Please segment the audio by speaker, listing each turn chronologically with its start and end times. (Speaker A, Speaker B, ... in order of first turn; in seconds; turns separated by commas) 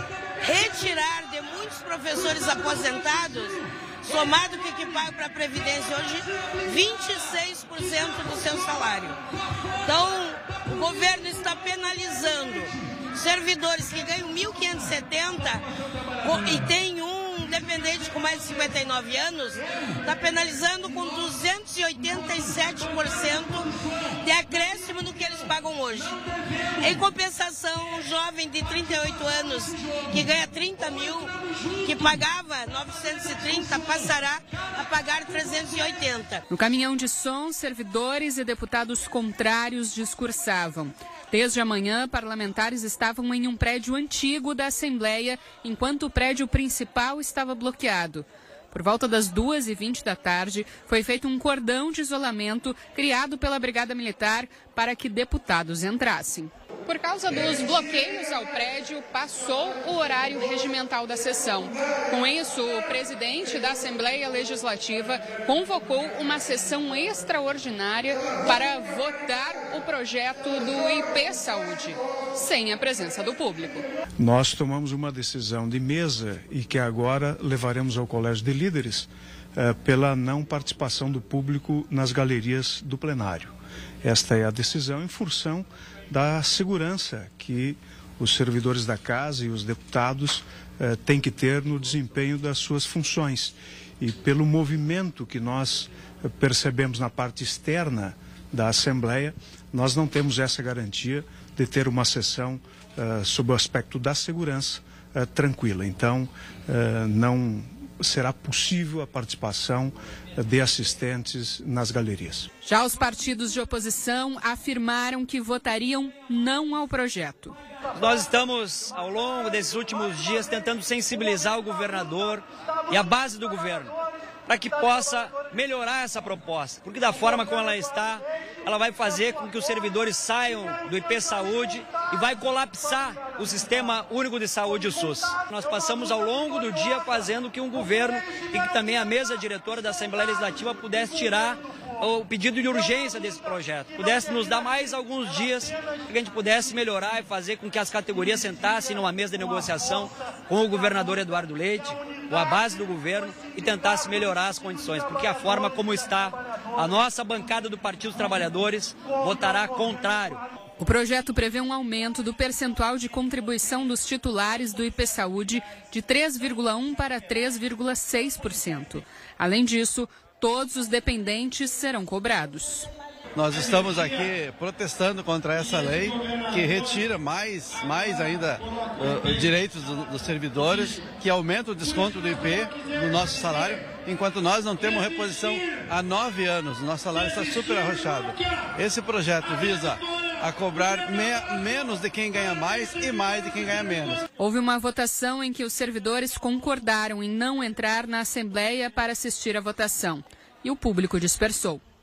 Speaker A: 0.4-9.2, Speaker A: 9.8-15.6, Speaker A: 16.2-23.7, Speaker A: 24.2-26.2, Speaker A: 26.8-36.5, Speaker B: 36.5-73.8, Speaker C: 74.2-112.5, Speaker B: 112.6-117.5, Speaker D: 117.9-123.9, Speaker D: 124.5-160.4, Speaker B: 160.8-172.9, Speaker E: 173.4-194.2, Speaker B: 194.4-201.8